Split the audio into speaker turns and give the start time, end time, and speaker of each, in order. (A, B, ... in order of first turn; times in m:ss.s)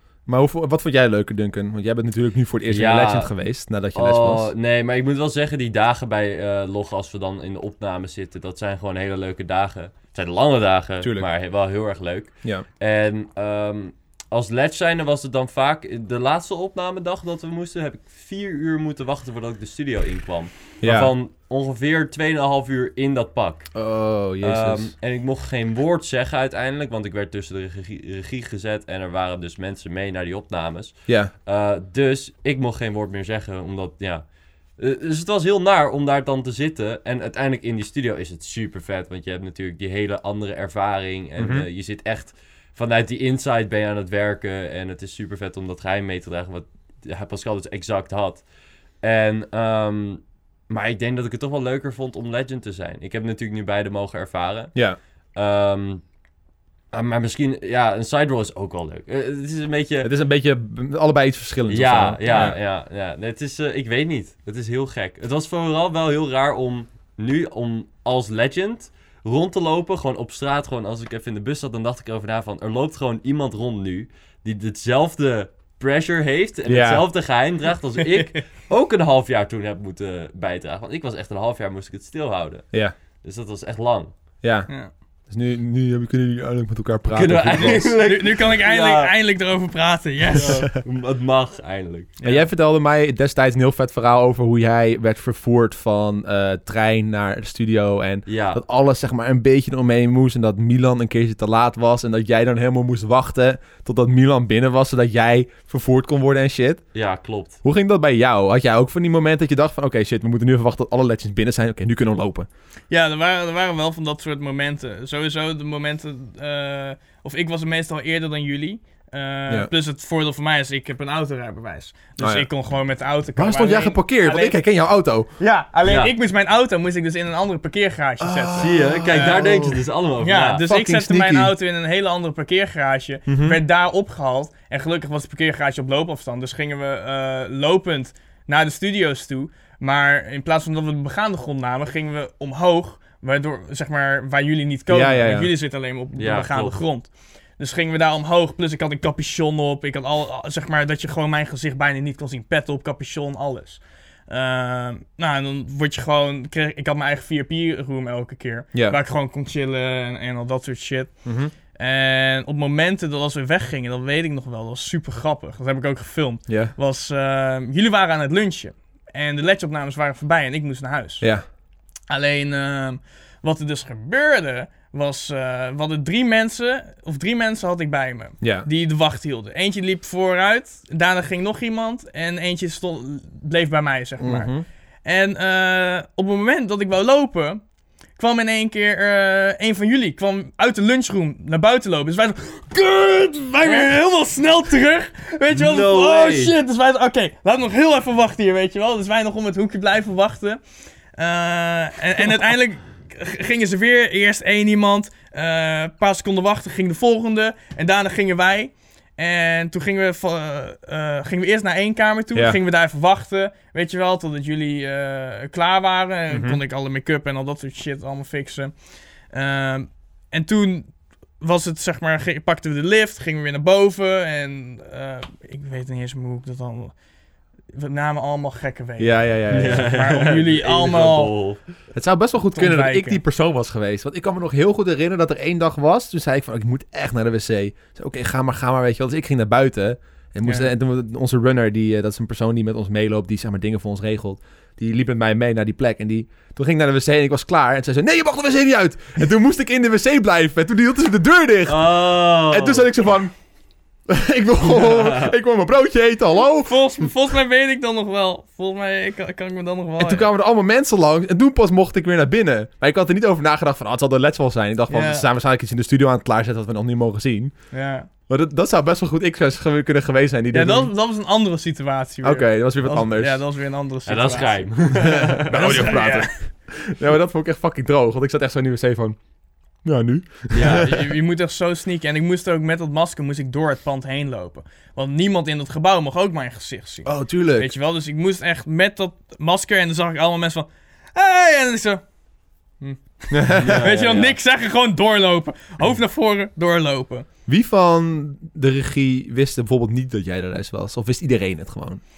0:00.2-0:04.5 A
0:02.7-0:03.3 B
0:03.9-0:23.7 B
0:11.0-0:11.3 A
0:20.8-0:21.1 A
0:23.7-0:24.9 A
0:24.4-0:34.2 B
0:34.8-0:48.4 B
0:41.4-0:41.7 A
0:49.0-0:54.7 B
0:55.3-0:56.0 B
0:56.9-1:00.1 B
1:00.0-1:02.6 A
1:01.7-1:22.7 B
1:02.2-1:02.6 C
1:16.6-1:17.0 A
1:18.0-1:18.4 C
1:23.2-1:24.1 B
1:24.4-1:24.7 A
1:25.3-1:28.0 A
1:27.1-1:29.1 B
1:27.6-1:30.7 C
1:30.3-1:32.1 B
1:32.2-1:32.5 C
1:32.2-1:46.8 A
1:38.3-1:38.6 B
1:46.9-1:47.6 B
1:47.6-1:52.5 A
1:52.9-2:04.6 C
2:02.2-2:02.5 A
2:03.4-2:05.3 A
2:05.4-2:09.5 C
2:05.8-2:06.1 B
2:08.2-2:09.8 A
2:08.6-2:10.6 B
2:10.2-2:41.2 C
2:10.6-2:11.5 A
2:13.3-2:13.6 A
2:24.9-2:25.5 A
2:26.2-2:26.8 B
2:41.2-2:41.5 A
2:41.7-2:51.2 C
2:46.5-2:46.7 A
2:52.1-3:04.5 C
2:58.4-2:58.7 A
3:04.2-3:04.6 A
3:05.0-3:07.6 C
3:08.2-3:20.6 C
3:15.5-3:16.5 B
3:21.2-3:38.7 C
3:36.3-3:36.6 A
3:39.3-3:46.9 C
3:47.7-3:51.3 C
3:49.0-3:49.9 A
3:49.5-3:51.6 B
3:51.9-4:13.3 A
3:52.5-3:53.2 C
4:00.4-4:00.7 C
4:11.7-4:12.9 B
4:14.1-4:16.8 A
4:14.6-4:15.3 B
4:16.6-4:20.2 C
4:20.0-4:27.5 A
4:24.9-4:25.2 C
4:27.7-4:28.1 C
4:28.3-4:30.9 A
4:30.5-4:34.9 C
4:32.2-4:33.4 A
4:34.0-4:35.8 B
4:35.0-4:39.2 A
4:35.4-4:36.3 C
4:39.8-4:41.0 A
4:40.5-4:40.9 B
4:40.5-4:52.0 C
4:47.0-4:47.7 A
4:52.8-4:57.2 C
4:53.3-4:53.8 A
4:53.5-4:54.4 B
4:57.5-5:02.0 A